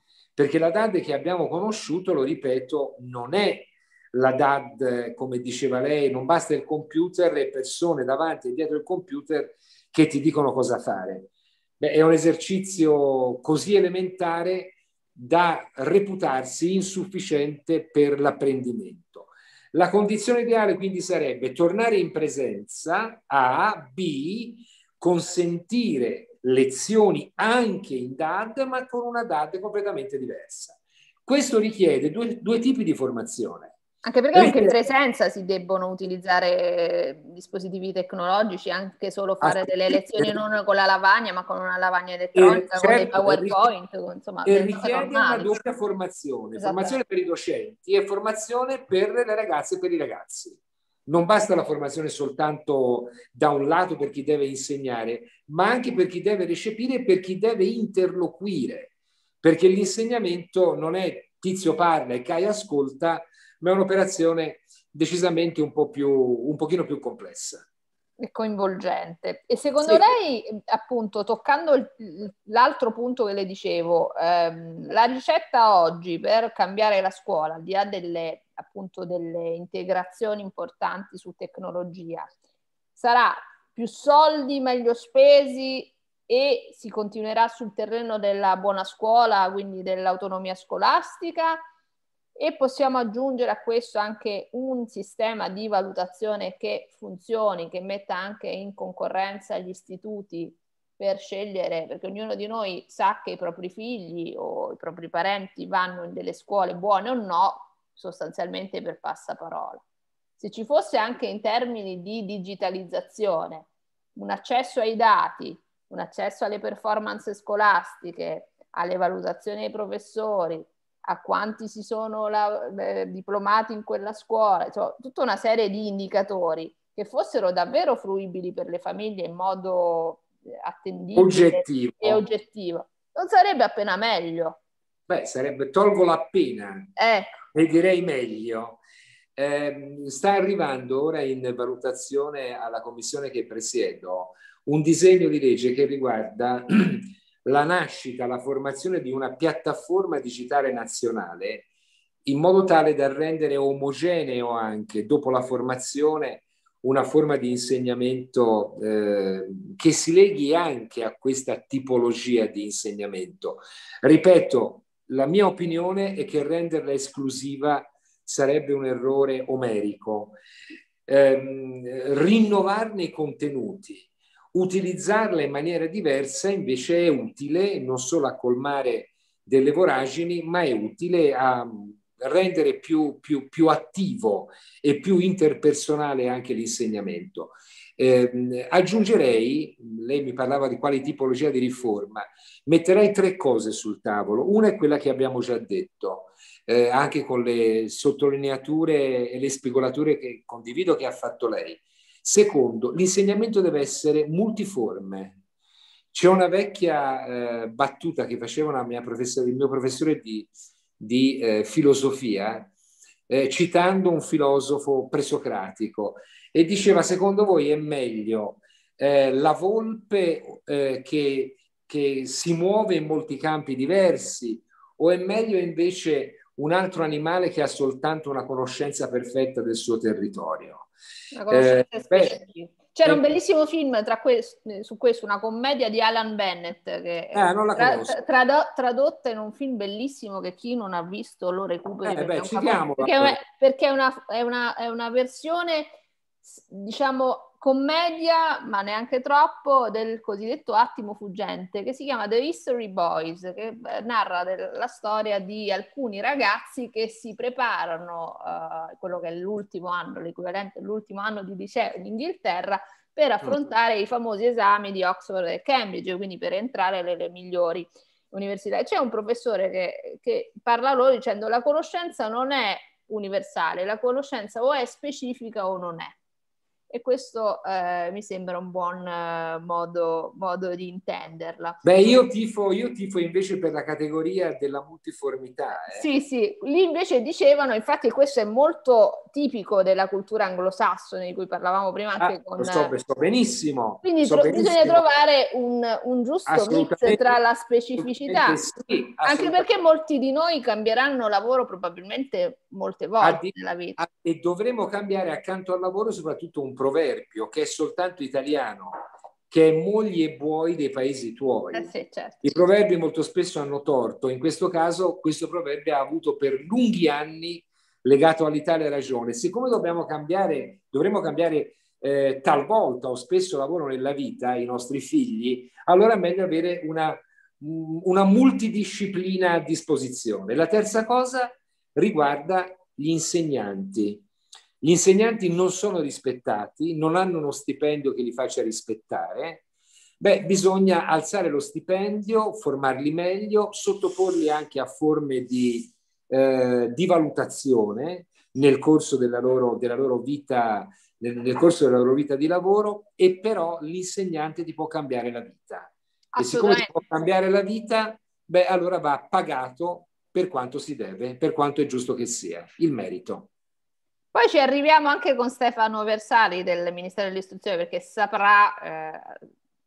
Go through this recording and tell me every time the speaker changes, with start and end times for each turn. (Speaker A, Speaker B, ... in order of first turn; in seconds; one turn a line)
Speaker A: 0.4-11.3
Speaker A: 11.8-33.8
Speaker B: 34.0-45.5
Speaker A: 34.3-34.8
Speaker A: 39.4-40.4
Speaker A: 42.4-43.7
Speaker A: 44.5-58.9
Speaker B: 46.6-47.0
Speaker A: 59.4-67.7
Speaker B: 68.2-82.3
Speaker B: 83.0-91.6
Speaker B: 92.4-109.8
Speaker B: 110.4-134.6
Speaker A: 131.2-132.2
Speaker A: 135.1-136.9
Speaker B: 137.0-137.4
Speaker A: 137.5-138.8
Speaker A: 139.4-151.7
Speaker A: 152.2-170.4
Speaker A: 171.1-205.4
Speaker A: 206.1-212.7
Speaker A: 213.3-230.9
Speaker B: 231.3-245.9
Speaker A: 231.5-232.4
Speaker A: 237.3-238.2
Speaker A: 242.1-243.4
Speaker B: 246.4-276.1
Speaker B: 276.9-281.8
Speaker A: 281.8-286.1
Speaker B: 285.9-292.9
Speaker A: 292.2-295.0
Speaker B: 294.0-298.6
Speaker A: 296.5-297.4
Speaker A: 298.0-299.7
Speaker B: 299.2-304.0
Speaker A: 303.2-311.9
Speaker B: 311.7-312.6
Speaker A: 312.4-334.2
Speaker A: 334.8-339.6
Speaker A: 340.2-363.5
Speaker B: 356.3-356.9
Speaker B: 364.3-369.4